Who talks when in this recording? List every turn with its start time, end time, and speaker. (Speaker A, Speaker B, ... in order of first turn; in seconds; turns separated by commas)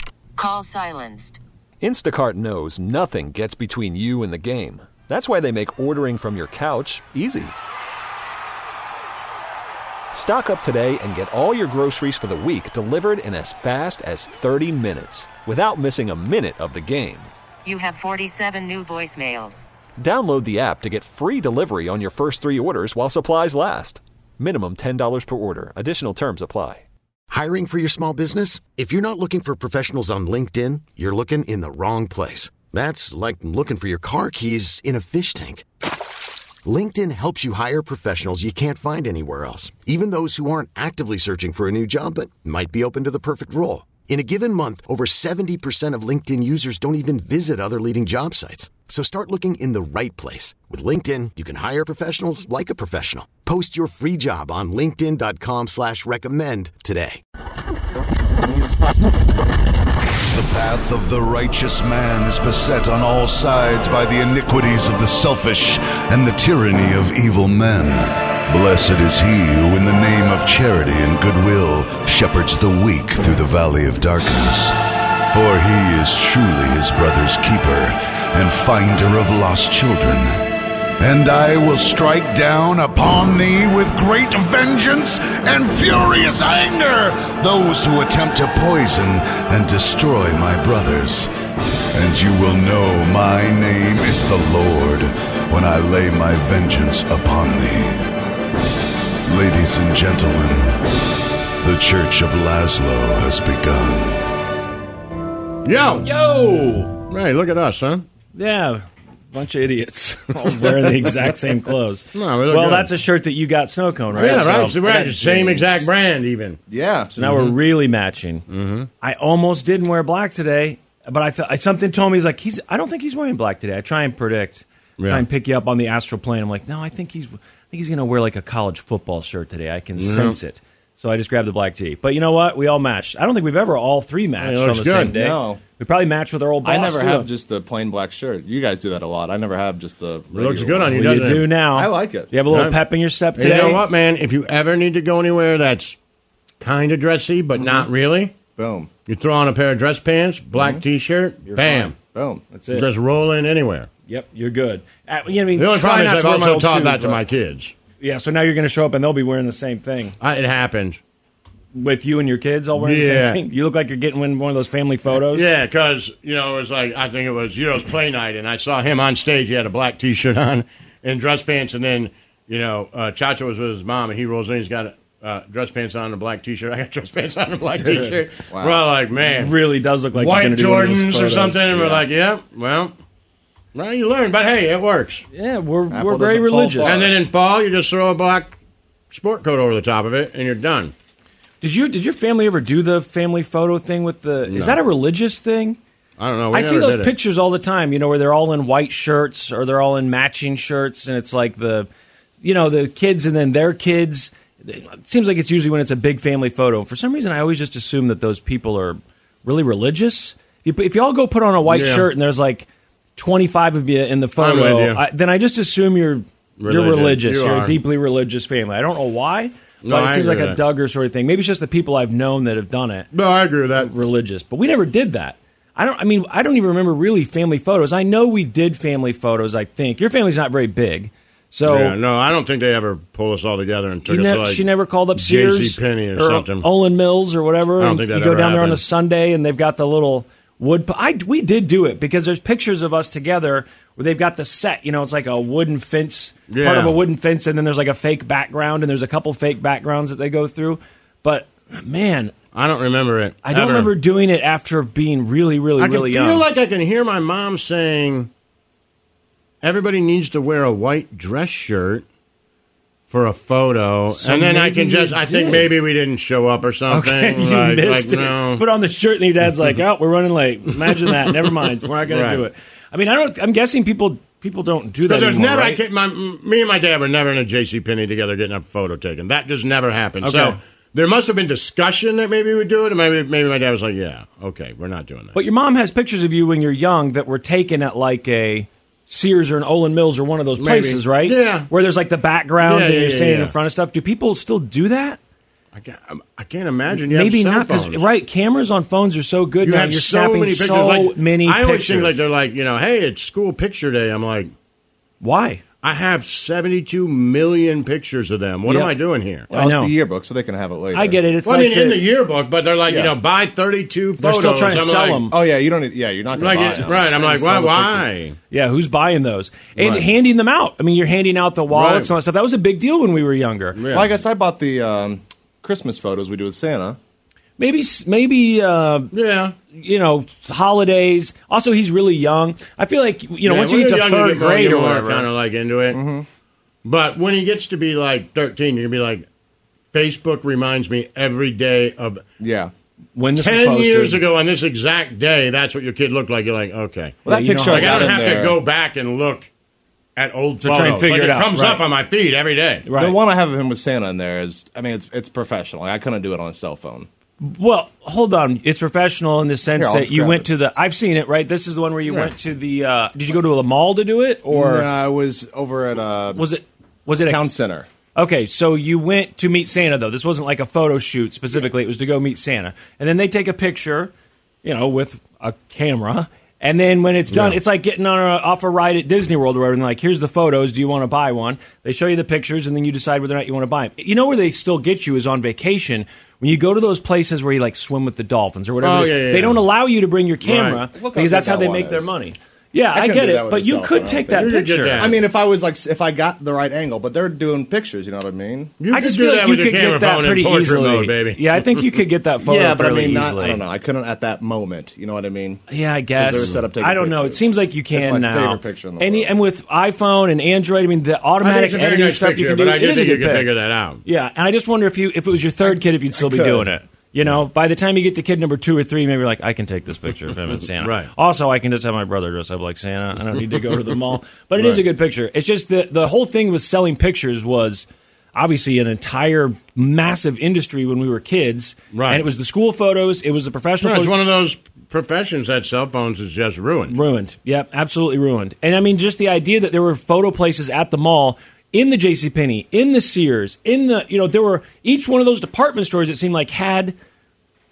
Speaker A: 0.4-1.4, Speaker B: 1.8-7.5, Speaker B: 10.1-17.3, Speaker A: 17.6-19.6, Speaker B: 20.0-26.8, Speaker C: 27.3-35.6, Speaker C: 36.6-57.2, Speaker D: 60.3-74.8, Speaker D: 75.3-80.3, Speaker D: 81.0-91.3, Speaker D: 91.9-98.1, Speaker D: 99.3-100.8, Speaker D: 101.6-104.2, Speaker E: 105.7-106.1, Speaker F: 106.0-106.9, Speaker E: 107.1-108.0, Speaker F: 108.3-114.8, Speaker G: 110.6-111.5, Speaker E: 112.1-112.9, Speaker G: 114.1-115.9, Speaker E: 114.2-116.6, Speaker G: 116.7-117.2, Speaker F: 117.2-118.4, Speaker E: 117.2-117.5, Speaker E: 118.5-118.9, Speaker F: 119.0-137.3, Speaker E: 125.0-125.2, Speaker E: 130.0-130.4, Speaker E: 134.4-135.1, Speaker G: 135.1-135.6, Speaker G: 136.7-141.2, Speaker E: 140.3-141.5, Speaker F: 140.9-143.8, Speaker G: 141.7-142.3, Speaker E: 142.5-142.8, Speaker E: 143.4-146.0, Speaker E: 146.6-148.3, Speaker G: 147.6-147.9, Speaker G: 148.6-148.9, Speaker E: 149.1-151.9, Speaker G: 150.5-150.8, Speaker F: 151.5-151.9, Speaker G: 152.1-152.4, Speaker F: 152.5-152.9, Speaker E: 152.7-153.9, Speaker F: 154.1-157.2, Speaker E: 155.6-157.7, Speaker F: 158.0-160.2, Speaker E: 160.2-161.0, Speaker F: 161.7-165.5, Speaker E: 162.8-163.4, Speaker E: 165.2-179.5, Speaker F: 177.8-178.2, Speaker G: 178.5-178.8, Speaker F: 179.2-182.0, Speaker E: 180.2-182.9, Speaker E: 183.7-185.2, Speaker F: 185.3-187.0, Speaker G: 185.9-187.1, Speaker E: 186.8-188.5, Speaker E: 189.1-190.9, Speaker F: 191.6-195.8, Speaker E: 194.5-194.8, Speaker E: 196.2-197.1, Speaker F: 196.5-201.9, Speaker F: 202.4-223.1, Speaker E: 211.7-212.1, Speaker E: 214.4-215.0, Speaker E: 216.6-217.8, Speaker E: 219.8-220.6, Speaker E: 223.1-223.9, Speaker F: 223.8-232.0, Speaker E: 231.7-234.6, Speaker F: 234.1-252.3, Speaker E: 235.2-236.7, Speaker E: 237.8-238.8, Speaker E: 246.5-247.0, Speaker E: 252.5-253.9, Speaker F: 253.4-256.4, Speaker E: 255.8-258.3, Speaker E: 259.6-262.0, Speaker E: 263.1-268.6, Speaker F: 264.2-265.7, Speaker F: 266.9-275.8, Speaker E: 270.8-272.4, Speaker E: 275.1-285.4, Speaker F: 280.2-280.6, Speaker F: 285.3-295.2, Speaker E: 290.6-291.7, Speaker E: 292.6-293.6, Speaker E: 295.7-298.1, Speaker F: 296.9-302.2, Speaker E: 299.6-304.5, Speaker F: 305.2-305.6, Speaker E: 305.8-309.5, Speaker F: 308.7-308.9, Speaker F: 309.5-309.9, Speaker G: 309.5-311.2, Speaker F: 310.9-312.0, Speaker E: 311.4-315.2, Speaker G: 312.9-313.1, Speaker F: 314.2-315.4, Speaker G: 315.3-318.1, Speaker E: 316.4-318.4, Speaker F: 318.5-323.8, Speaker E: 321.7-322.1, Speaker E: 323.8-324.1, Speaker G: 323.9-327.0, Speaker F: 327.6-329.1, Speaker E: 329.1-329.6, Speaker F: 329.7-335.3, Speaker E: 333.4-336.0, Speaker G: 335.9-336.3, Speaker E: 336.9-339.3, Speaker E: 339.9-342.2, Speaker G: 342.4-342.7, Speaker F: 343.2-344.2, Speaker E: 343.4-349.5, Speaker G: 347.2-348.6, Speaker F: 347.3-348.3, Speaker E: 350.2-352.9, Speaker F: 350.6-351.8, Speaker F: 352.9-353.2, Speaker G: 352.9-357.1, Speaker F: 357.4-364.9, Speaker G: 359.8-360.5, Speaker G: 364.5-366.5, Speaker F: 366.4-367.5, Speaker G: 367.2-367.9, Speaker F: 368.1-374.1, Speaker F: 374.6-395.1, Speaker E: 377.3-377.6, Speaker E: 388.8-389.6, Speaker E: 390.4-390.8, Speaker G: 390.9-392.1, Speaker G: 392.9-398.7, Speaker E: 394.3-395.2, Speaker E: 398.8-402.0, Speaker F: 398.9-403.6, Speaker G: 402.4-405.6, Speaker F: 405.7-413.5, Speaker G: 406.2-409.3, Speaker E: 411.4-414.0, Speaker F: 414.1-434.2, Speaker G: 415.6-416.7, Speaker E: 420.5-421.1, Speaker E: 431.9-432.2, Speaker E: 433.8-436.9, Speaker F: 436.9-447.0